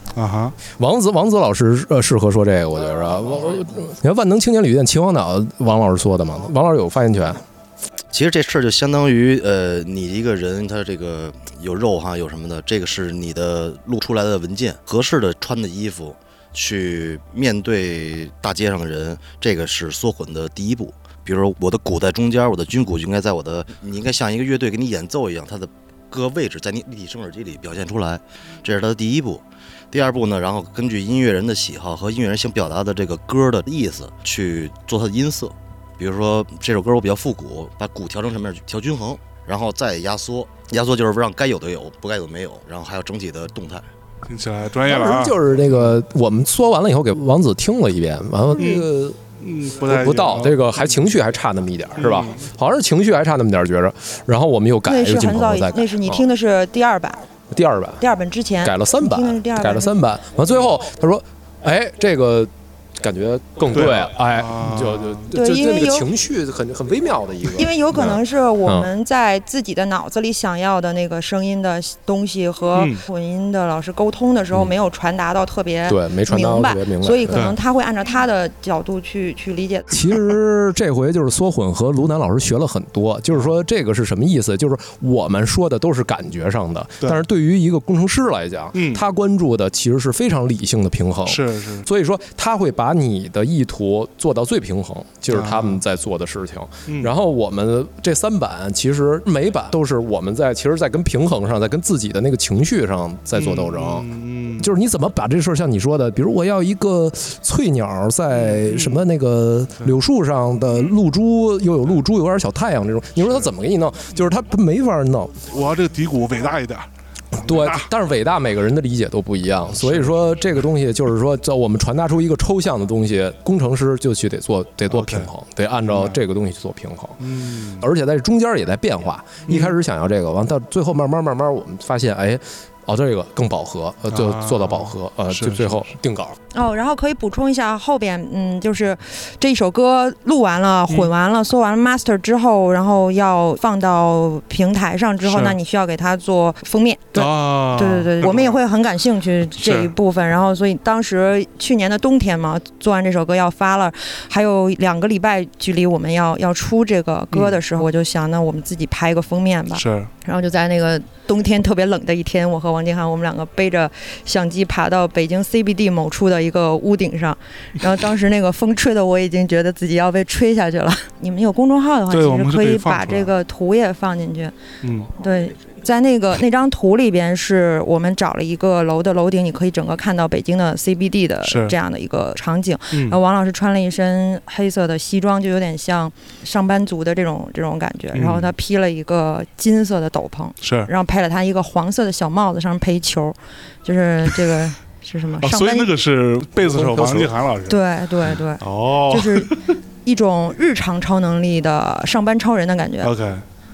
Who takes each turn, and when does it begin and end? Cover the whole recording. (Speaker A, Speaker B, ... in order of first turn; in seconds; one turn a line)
Speaker A: 0.1-0.6
Speaker B: 0.8-7.4
Speaker C: 8.1-43.9
Speaker A: 44.2-46.0
Speaker B: 44.8-49.2
Speaker D: 48.6-48.8
Speaker A: 48.6-48.8
Speaker A: 49.4-50.9
Speaker B: 49.9-56.2
Speaker A: 52.0-52.3
Speaker D: 54.9-57.2
Speaker B: 57.5-58.0
Speaker D: 58.0-60.0
Speaker B: 58.6-68.9
Speaker A: 63.7-65.3
Speaker D: 65.3-66.1
Speaker D: 67.5-79.9
Speaker A: 72.7-73.0
Speaker B: 75.8-77.5
Speaker A: 77.3-77.6
Speaker B: 79.9-104.1
Speaker A: 88.7-89.0
Speaker A: 91.2-91.9
Speaker A: 95.3-95.8
Speaker A: 103.3-104.7
Speaker B: 104.6-115.5
Speaker A: 108.5-109.0
Speaker A: 115.5-117.8
Speaker B: 117.3-136.3
Speaker A: 119.8-120.3
Speaker A: 124.9-125.3
Speaker A: 125.9-126.2
Speaker A: 127.2-127.8
Speaker A: 129.5-129.8
Speaker A: 134.1-135.8
Speaker D: 136.5-174.5
Speaker A: 145.2-145.6
Speaker A: 147.1-148.6
Speaker A: 149.6-149.9
Speaker A: 157.3-157.6
Speaker A: 159.7-160.1
Speaker A: 172.1-173.3
Speaker A: 174.8-175.1
Speaker D: 175.2-195.9
Speaker A: 181.4-181.8
Speaker A: 188.1-188.5
Speaker A: 190.6-190.9
Speaker A: 195.4-197.8
Speaker B: 196.6-197.3
Speaker D: 197.7-199.5
Speaker A: 198.6-199.8
Speaker D: 200.0-203.1
Speaker A: 203.0-203.4